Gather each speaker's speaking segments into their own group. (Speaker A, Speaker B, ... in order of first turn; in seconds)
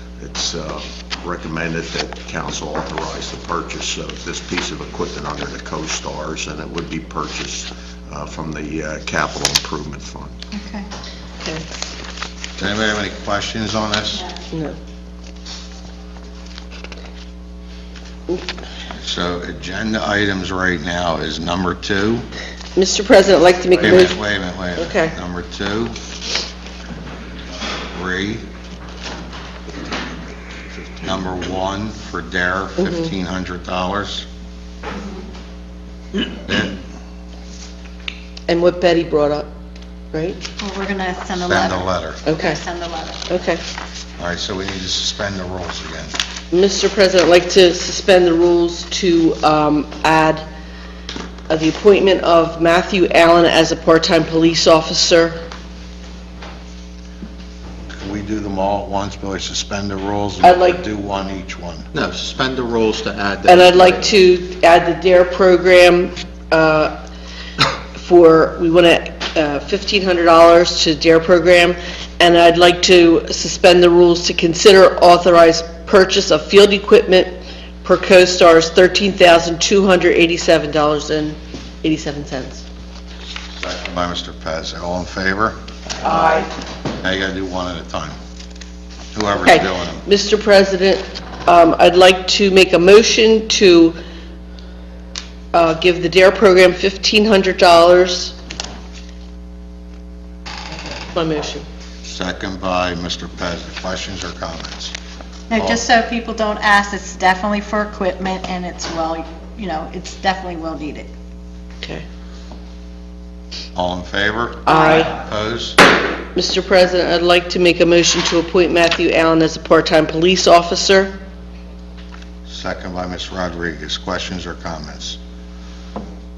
Speaker A: 0.2-10.3, 30.5-31.2
Speaker B: 10.5-10.8, 40.6-43.4, 105.5-111.1, 114.7-115.0
Speaker C: 12.6-14.3, 19.0-22.2, 23.8-25.9, 27.9-28.4, 31.0-34.2, 36.3-36.8, 41.5-42.2, 44.2-46.1, 57.9-61.9, 83.5-85.5, 87.0-88.2, 89.1-90.0, 102.0-104.9, 105.6-105.8, 113.8-115.8, 122.5-125.2
Speaker D: 22.8-24.1, 24.8-25.1, 32.8-33.1, 38.5-39.5, 40.1-40.4, 42.2-42.6, 43.3-43.6, 46.5-50.4, 51.5-55.4, 60.4-60.8, 63.4-66.9, 67.9-82.6, 86.0-86.5, 89.4-94.0, 95.5-98.3, 101.0-101.6, 114.7-115.1, 116.3-121.1
Speaker E: 61.9-64.2